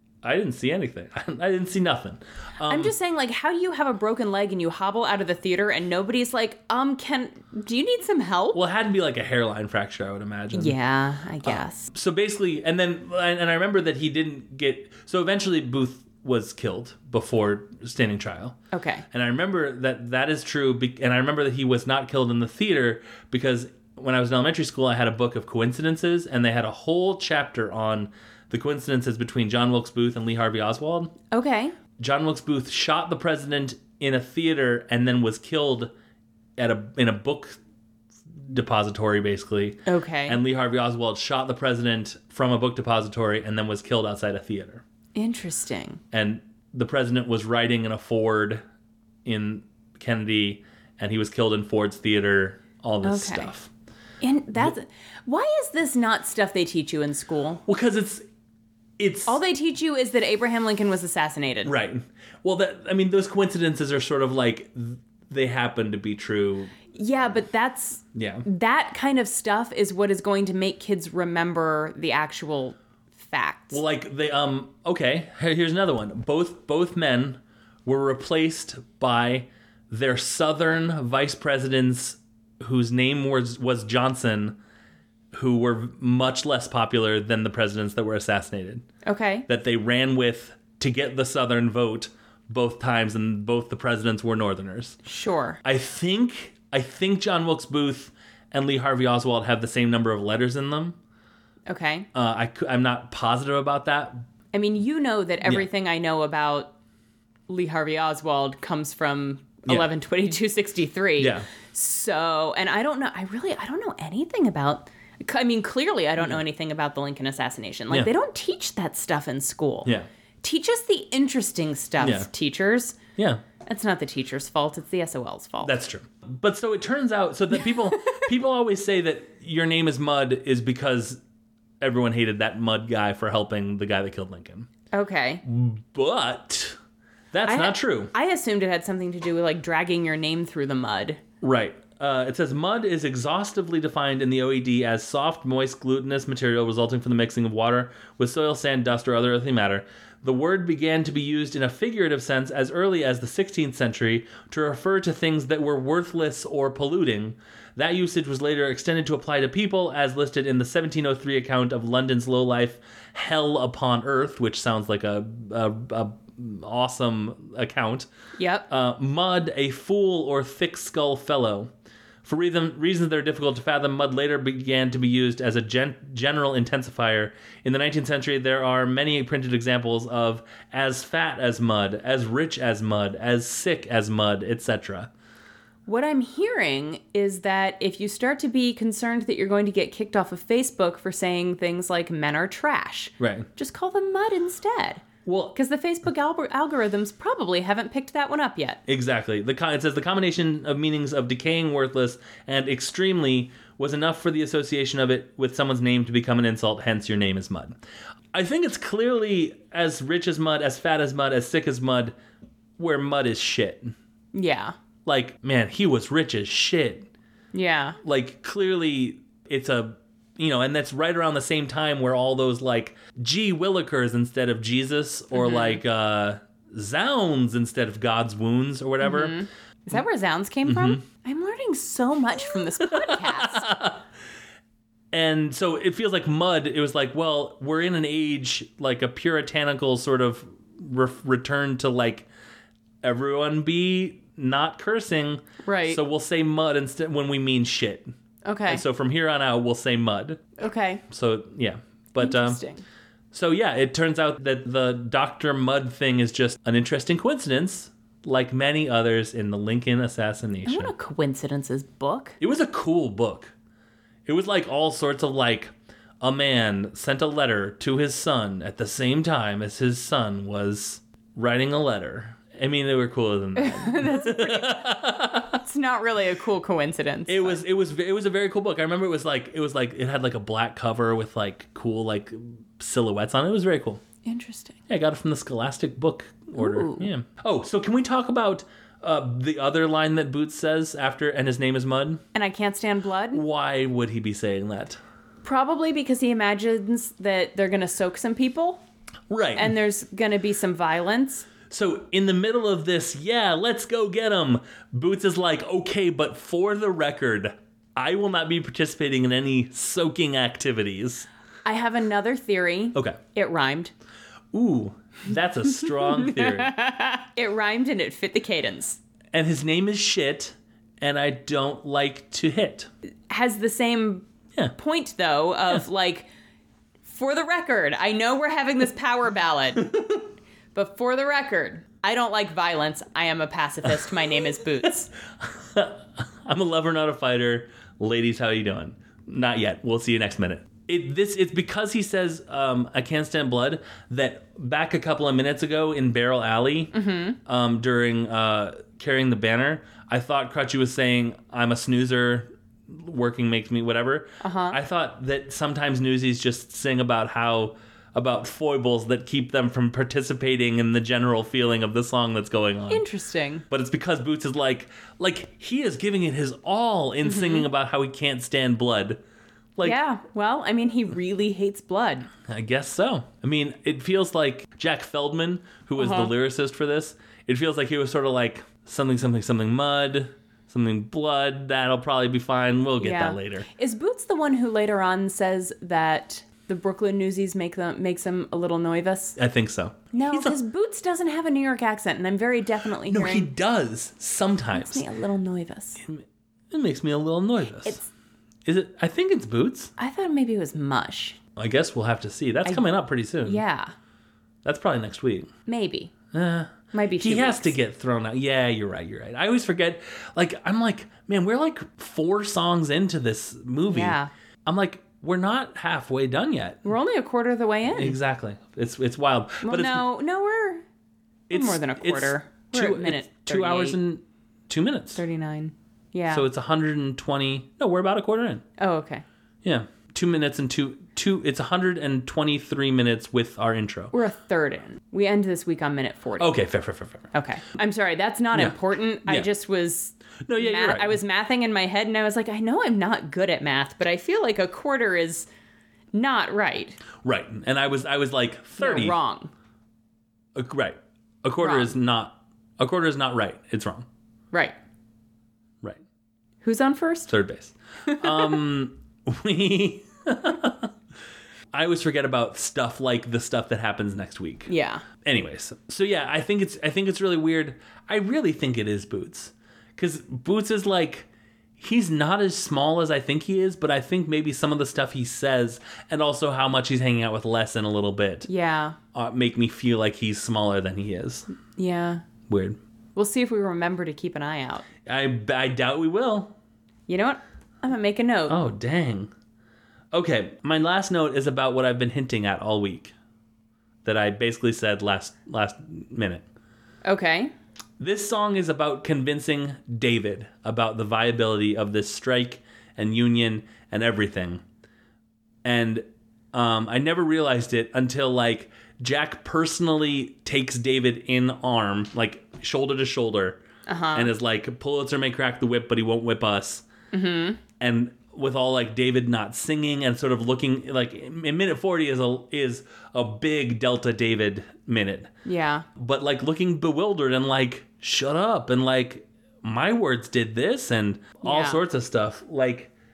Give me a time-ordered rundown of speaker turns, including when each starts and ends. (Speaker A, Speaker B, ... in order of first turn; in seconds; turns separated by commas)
Speaker A: 0.2-2.9, Speaker B: 2.6-8.6, Speaker A: 8.5-10.8, Speaker B: 10.5-11.9, Speaker A: 11.4-18.6, Speaker B: 18.7-19.0, Speaker A: 19.1-31.1, Speaker B: 31.3-31.7, Speaker A: 32.0-35.9, Speaker A: 36.6-37.6, Speaker A: 38.4-44.8, Speaker B: 39.9-40.4, Speaker B: 45.1-46.0, Speaker A: 46.1-48.6, Speaker A: 49.2-53.7, Speaker B: 53.0-53.5, Speaker B: 54.2-57.6, Speaker A: 57.7-58.2, Speaker A: 59.0-59.4, Speaker B: 59.2-61.7, Speaker A: 61.6-66.8, Speaker B: 66.9-73.8, Speaker A: 68.1-68.4, Speaker A: 73.7-84.6, Speaker A: 85.3-88.8, Speaker B: 89.0-89.5, Speaker A: 89.5-95.0, Speaker B: 95.0-95.6, Speaker A: 95.6-101.0, Speaker B: 101.7-102.1, Speaker A: 102.1-104.2, Speaker B: 104.5-106.7, Speaker B: 107.5-119.9, Speaker A: 111.2-111.5, Speaker B: 120.4-123.0, Speaker A: 122.0-122.3, Speaker A: 123.2-123.4, Speaker B: 123.6-125.7, Speaker A: 125.6-131.2, Speaker B: 127.7-128.2, Speaker A: 131.8-134.7, Speaker B: 134.9-135.4, Speaker A: 135.4-136.8, Speaker A: 137.3-138.1, Speaker B: 137.5-141.2, Speaker A: 141.4-168.1, Speaker B: 168.4-168.7, Speaker A: 168.7-171.7, Speaker A: 172.2-185.1, Speaker B: 185.8-195.0, Speaker A: 193.2-193.5, Speaker A: 195.2-195.6, Speaker B: 195.5-198.8, Speaker A: 198.9-207.8, Speaker A: 208.3-212.1, Speaker A: 212.8-213.9, Speaker B: 214.3-214.7, Speaker A: 215.0-217.1, Speaker B: 217.5-218.0, Speaker A: 218.0-229.4, Speaker B: 225.3-225.8, Speaker B: 229.0-233.7, Speaker A: 230.7-231.0, Speaker A: 232.8-234.0, Speaker A: 235.1-242.3, Speaker A: 243.0-248.1, Speaker B: 245.6-246.0, Speaker B: 248.4-248.8, Speaker A: 248.7-250.4, Speaker B: 250.6-251.0, Speaker A: 251.1-252.6, Speaker B: 252.2-252.8, Speaker A: 253.3-260.9, Speaker B: 260.6-262.4, Speaker A: 262.4-263.5, Speaker A: 264.2-275.6, Speaker B: 273.6-277.6, Speaker A: 277.3-284.0, Speaker B: 284.2-284.8, Speaker A: 284.9-292.2, Speaker B: 286.6-287.1, Speaker B: 292.3-293.4, Speaker A: 293.3-295.0, Speaker B: 295.4-298.8, Speaker A: 299.3-299.7, Speaker B: 299.6-301.5, Speaker A: 301.7-311.3, Speaker B: 311.6-313.9, Speaker A: 314.5-316.7, Speaker B: 315.9-319.0, Speaker A: 319.3-322.9, Speaker B: 323.3-326.3, Speaker B: 327.1-330.0, Speaker B: 330.7-335.1, Speaker A: 335.4-363.0, Speaker B: 346.9-347.4, Speaker B: 354.4-354.8, Speaker B: 362.9-363.6, Speaker A: 363.7-369.2, Speaker B: 367.2-367.7, Speaker B: 369.8-372.3, Speaker A: 372.5-383.7, Speaker B: 376.0-376.3, Speaker B: 383.0-389.4, Speaker A: 389.4-390.6, Speaker B: 390.1-393.5, Speaker A: 393.1-395.0, Speaker B: 394.7-396.0, Speaker A: 396.0-398.0, Speaker A: 398.6-399.9, Speaker B: 400.0-401.4, Speaker A: 401.6-403.6, Speaker B: 403.4-403.9, Speaker A: 404.6-405.5, Speaker B: 405.6-406.1, Speaker A: 406.3-416.9, Speaker B: 406.9-407.8, Speaker B: 413.9-414.3, Speaker B: 416.9-418.2, Speaker A: 417.9-420.1, Speaker B: 419.6-420.8, Speaker A: 421.5-425.2, Speaker B: 421.5-424.0, Speaker B: 425.1-426.4, Speaker A: 426.3-428.6, Speaker B: 428.8-429.2, Speaker A: 429.6-434.1, Speaker B: 434.1-436.5, Speaker A: 436.4-437.3, Speaker B: 437.3-445.5, Speaker A: 438.5-439.5, Speaker A: 440.5-441.2, Speaker B: 446.1-447.0, Speaker A: 447.2-449.2, Speaker B: 448.8-449.5, Speaker A: 450.6-454.1, Speaker B: 451.6-451.9, Speaker B: 456.6-457.3, Speaker A: 457.3-460.9, Speaker B: 458.1-458.5, Speaker A: 461.7-464.7, Speaker B: 464.7-465.0, Speaker A: 465.2-478.5, Speaker B: 478.4-479.0, Speaker A: 479.1-481.5, Speaker B: 481.8-482.2, Speaker A: 482.5-482.8, Speaker B: 483.1-484.9, Speaker A: 485.1-486.6, Speaker B: 487.1-488.6, Speaker A: 488.5-489.3, Speaker A: 490.1-493.1, Speaker A: 494.0-496.4, Speaker B: 497.0-497.5, Speaker A: 498.0-504.6, Speaker A: 505.6-513.6, Speaker B: 513.9-514.3, Speaker A: 514.1-516.9, Speaker B: 517.1-517.6, Speaker A: 517.8-525.3, Speaker B: 525.4-525.9, Speaker A: 526.0-532.9, Speaker B: 531.4-531.8